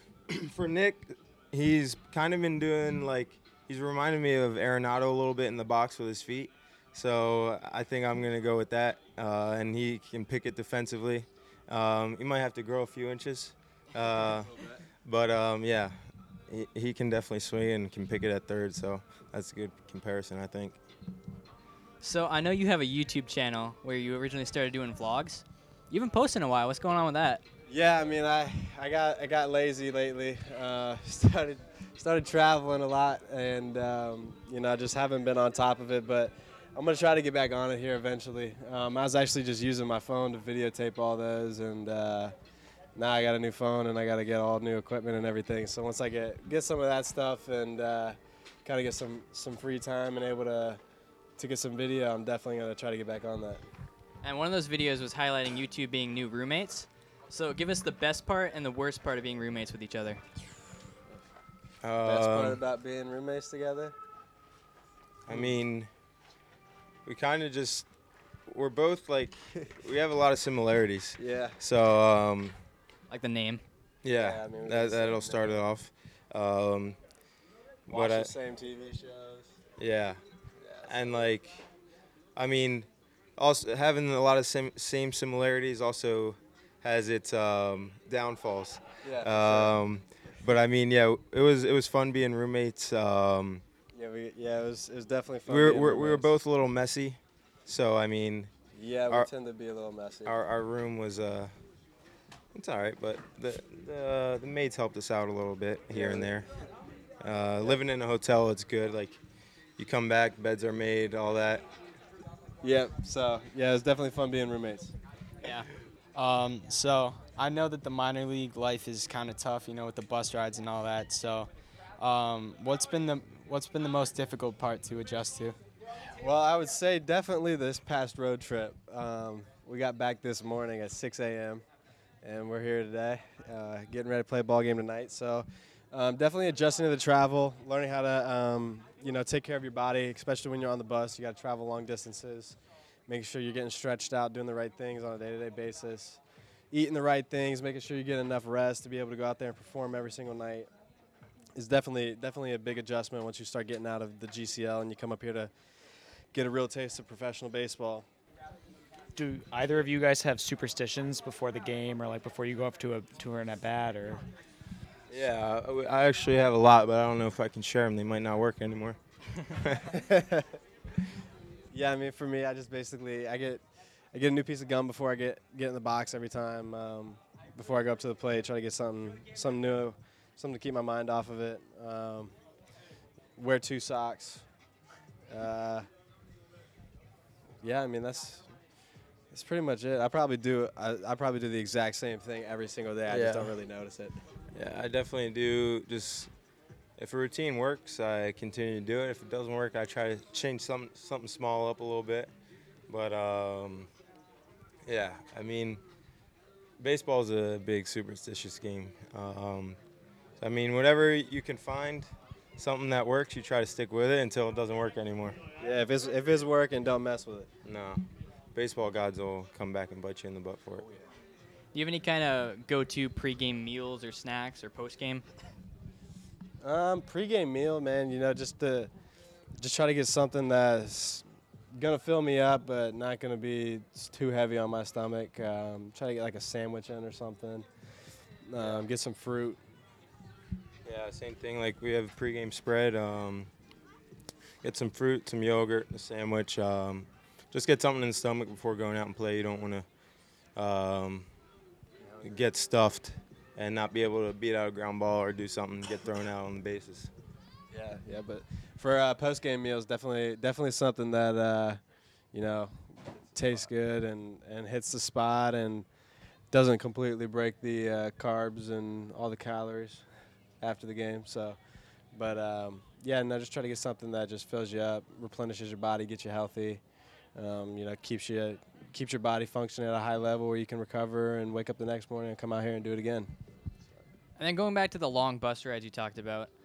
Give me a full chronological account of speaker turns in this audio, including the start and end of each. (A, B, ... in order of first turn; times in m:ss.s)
0:00.3-0:16.0 A
0:16.5-0:20.8 A
0:22.0-0:27.4 B
0:27.7-0:42.4 C
0:43.0-0:50.8 C
0:51.4-0:53.6 C
0:54.2-1:00.2 B
1:01.8-1:02.6 A
1:02.0-1:04.0 C
1:05.3-1:05.9 A
1:07.1-1:07.9 A
1:08.5-1:12.6 A
1:11.2-1:11.6 C
1:13.1-1:13.6 B
1:14.0-1:17.0 A
1:14.2-1:15.5 C
1:17.9-1:18.3 A
1:17.9-1:19.5 C
1:19.8-1:20.2 A
1:20.6-1:21.3 C
1:20.8-1:21.6 A
1:22.4-1:33.6 A
1:29.0-1:29.7 C
1:33.9-1:36.3 C
1:35.5-1:38.5 A
1:38.8-1:40.3 C
1:40.2-1:41.5 A
1:42.5-1:46.5 A
1:45.9-1:46.3 C
1:47.2-1:49.2 A
1:49.8-1:51.6 A
1:52.6-1:54.9 C
1:55.4-1:55.7 B
1:56.1-2:05.6 D
2:06.2-2:11.6 C
2:12.2-2:26.2 C
2:26.7-2:30.7 C
2:31.6-2:35.5 C
2:36.3-2:38.1 C
2:39.2-2:44.2 E
2:45.1-2:50.0 A
2:49.9-2:50.4 C
2:51.7-3:02.4 C
3:03.4-3:04.5 C
3:05.3-3:05.9 C
3:07.6-3:08.5 C
3:09.3-3:14.2 C
3:13.1-3:13.6 A
3:14.5-3:16.3 A
3:17.0-3:22.3 A
3:22.9-3:23.9 A
3:24.9-3:25.8 A
3:26.8-3:29.8 A
3:30.4-3:35.4 A
3:35.6-3:37.5 C
3:37.6-3:40.9 A
3:41.7-3:45.2 B
3:46.6-3:48.9 C
3:49.6-3:51.2 C
3:51.8-3:57.7 C
3:58.5-3:59.6 C
3:58.6-3:58.8 A
4:00.8-4:03.5 A
4:04.6-4:09.9 A
4:10.6-4:11.3 A
4:12.2-4:17.1 A
4:17.7-4:21.8 C
4:22.3-4:25.9 C
4:26.5-4:30.0 C
4:30.6-4:31.6 C
4:32.1-4:36.8 C
4:37.4-4:43.3 C
4:44.4-4:46.5 B